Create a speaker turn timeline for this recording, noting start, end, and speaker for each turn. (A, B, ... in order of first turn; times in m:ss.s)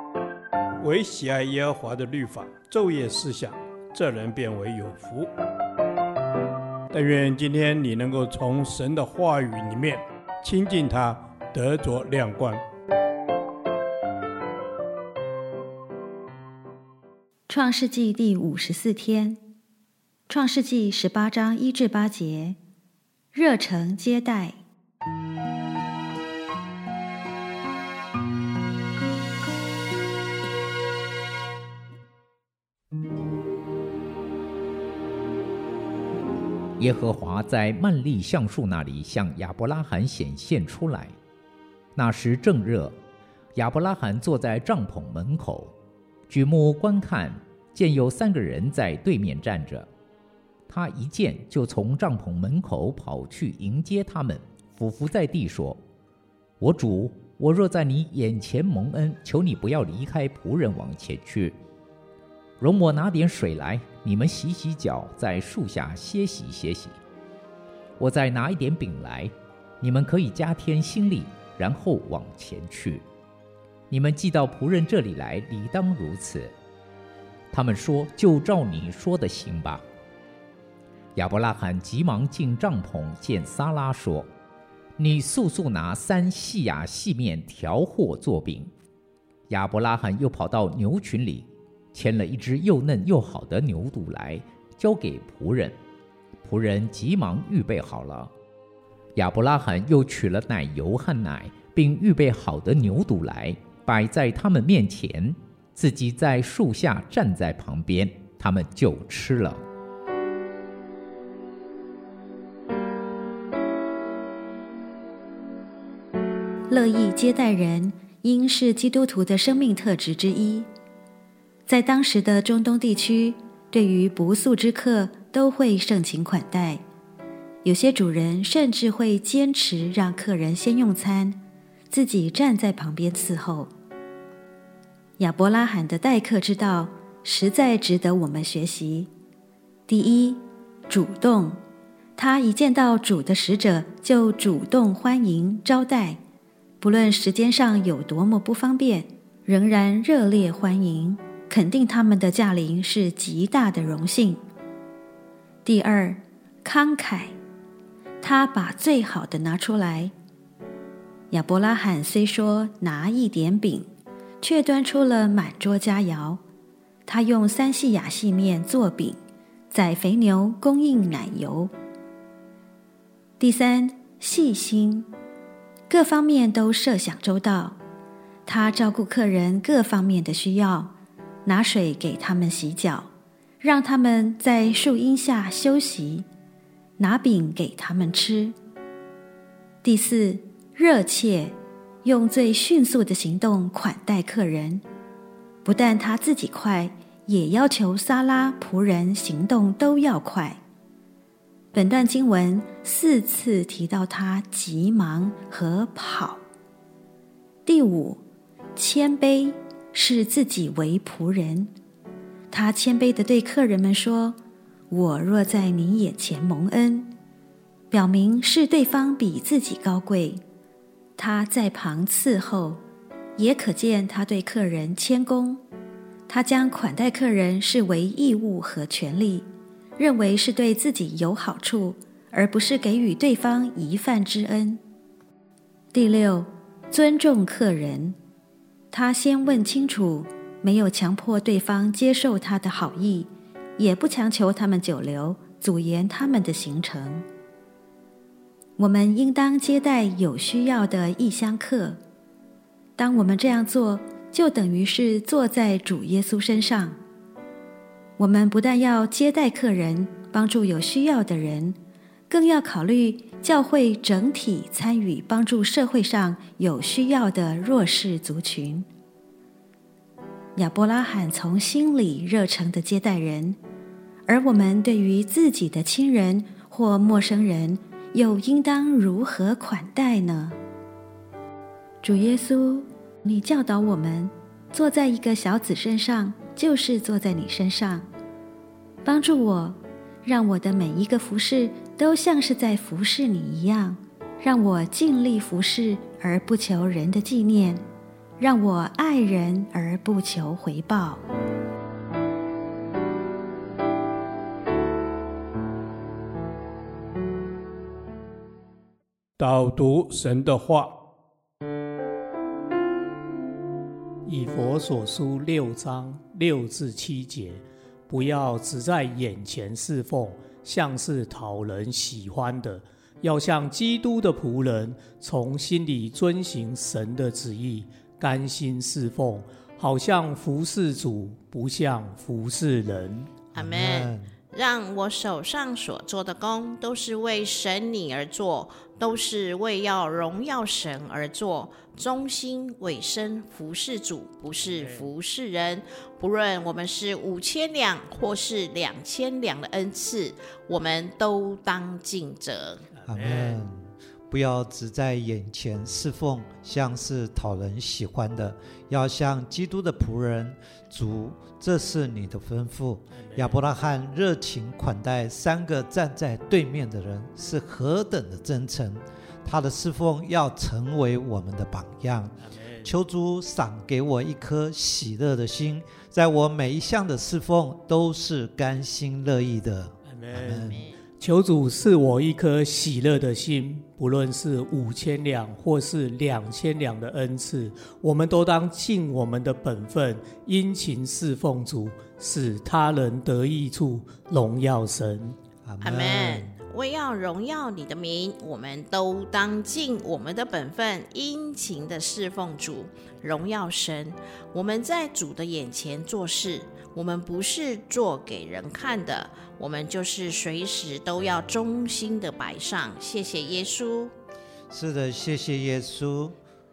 0:00.8-0:05.3 A
0:06.9-0:12.6 A
0:17.5-0:19.4 B
0:20.3-0:22.6 B
0:23.3-0:24.6 B
0:36.8-0:41.1 C
0:42.0-0:42.9 C
0:43.5-0:45.7 C
0:46.3-0:49.9 C
0:50.7-0:55.8 C
0:56.6-1:01.5 C
1:02.6-1:07.0 C
1:08.0-1:13.0 C
1:13.9-1:16.5 C
1:17.5-1:19.8 C
1:21.1-1:24.3 C
1:25.0-1:28.7 C
1:29.5-1:35.7 C
1:36.4-1:38.3 C
1:39.2-1:49.6 C
1:56.7-2:00.7 B
2:01.7-2:06.8 B
2:07.6-2:13.7 B
2:15.2-2:19.1 B
2:19.9-2:21.6 B
2:22.2-2:26.2 B
2:26.8-2:34.4 B
2:35.6-2:37.3 B
2:38.2-2:40.1 B
2:41.3-2:43.9 B
2:44.4-2:46.4 B
2:47.1-2:49.2 B
2:49.7-2:51.7 B
2:53.4-2:55.1 B
2:55.9-2:57.8 B
2:58.4-3:00.9 B
3:01.4-3:03.1 B
3:03.6-3:06.3 B
3:07.0-3:08.6 B
3:09.8-3:14.8 B
3:15.6-3:20.6 B
3:21.7-3:26.4 B
3:27.6-3:28.2 B
3:28.8-3:31.7 B
3:32.5-3:34.4 B
3:34.9-3:37.1 B
3:37.9-3:40.4 B
3:41.2-3:42.8 B
3:43.4-3:45.6 B
3:46.3-3:54.8 B
3:55.9-3:58.2 B
3:58.9-4:07.2 B
4:08.8-4:12.0 B
4:13.0-4:17.0 B
4:18.2-4:21.8 B
4:22.3-4:28.9 B
4:30.6-4:33.6 B
4:34.3-4:40.6 B
4:42.0-4:48.1 B
4:49.0-4:57.8 B
4:58.4-5:01.2 B
5:09.4-5:10.9 A
5:14.2-5:33.3 D
5:33.5-5:52.8 E
5:33.6-5:34.3 F
5:53.0-5:53.6 D
5:53.1-6:20.8 F
6:03.2-6:03.6 D
6:12.4-6:12.9 D
6:20.1-6:35.4 D
6:20.6-6:21.0 E
6:35.6-6:36.4 F
6:35.8-6:54.1 E
6:54.7-6:56.4 F